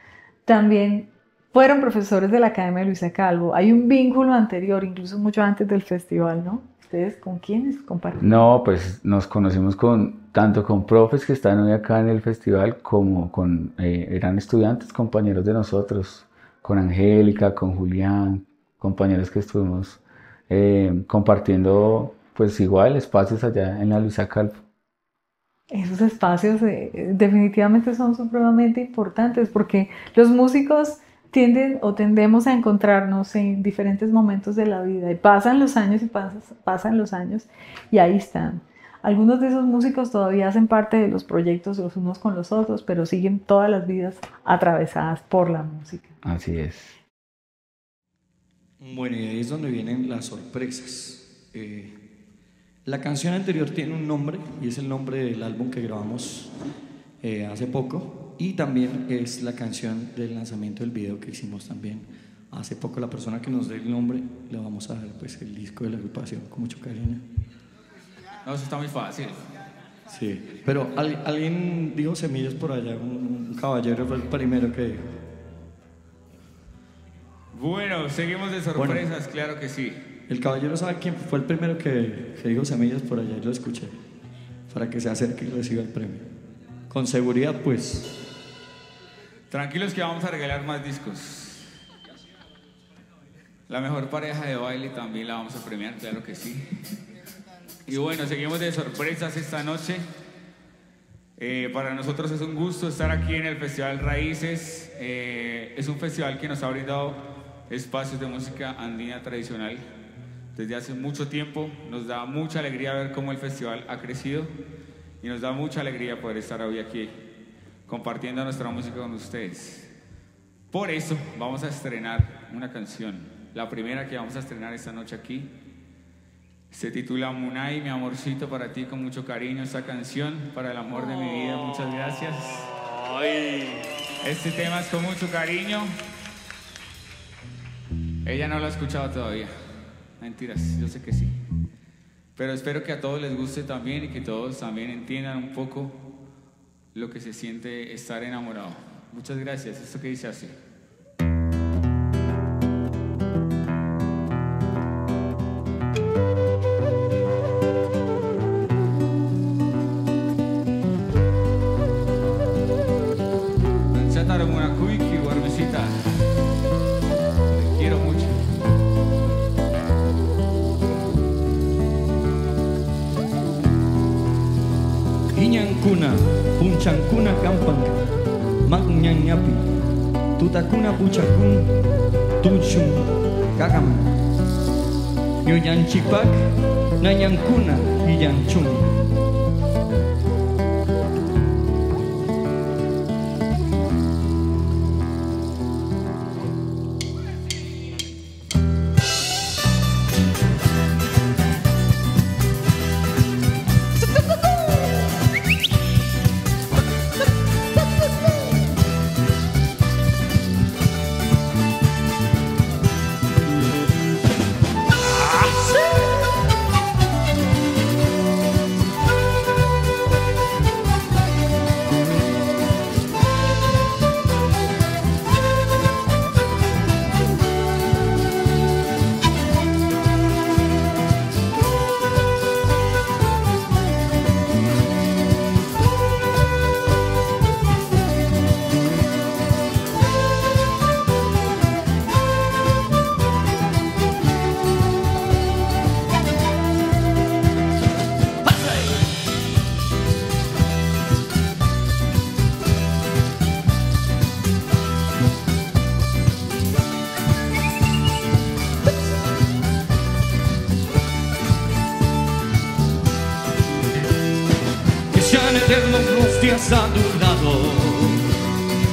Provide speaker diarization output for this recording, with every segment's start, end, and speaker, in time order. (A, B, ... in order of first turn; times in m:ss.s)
0:00.5-0:08.2 A
0:08.2-0:24.6 B
0:25.7-0:46.2 A
0:46.2-0:47.0 B
0:48.8-0:52.0 C
0:52.8-0:56.5 C
0:57.2-1:07.2 C
1:08.4-1:09.4 D
1:10.1-1:15.2 C
1:17.5-1:20.0 D
1:18.8-1:19.0 C
1:20.3-1:23.9 C
1:24.7-1:26.3 C
1:26.9-1:28.2 C
1:29.5-1:31.7 D
1:33.7-1:36.8 D
1:37.9-1:40.1 D
1:41.4-1:49.8 D
1:50.6-1:54.5 D
1:55.2-1:57.1 D
1:57.9-1:59.9 D
2:00.7-2:05.5 D
2:06.7-2:12.7 D
2:14.2-2:15.9 D
2:18.2-2:19.5 D
2:20.2-2:21.4 D
2:22.4-2:26.0 D
2:27.0-2:30.6 D
2:43.9-2:46.0 D
2:47.5-2:48.4 D
2:55.4-2:58.0 C
2:58.6-2:59.7 C
3:00.4-3:01.8 C
3:02.4-3:04.2 C
3:05.4-3:09.0 C
4:25.1-4:28.2 C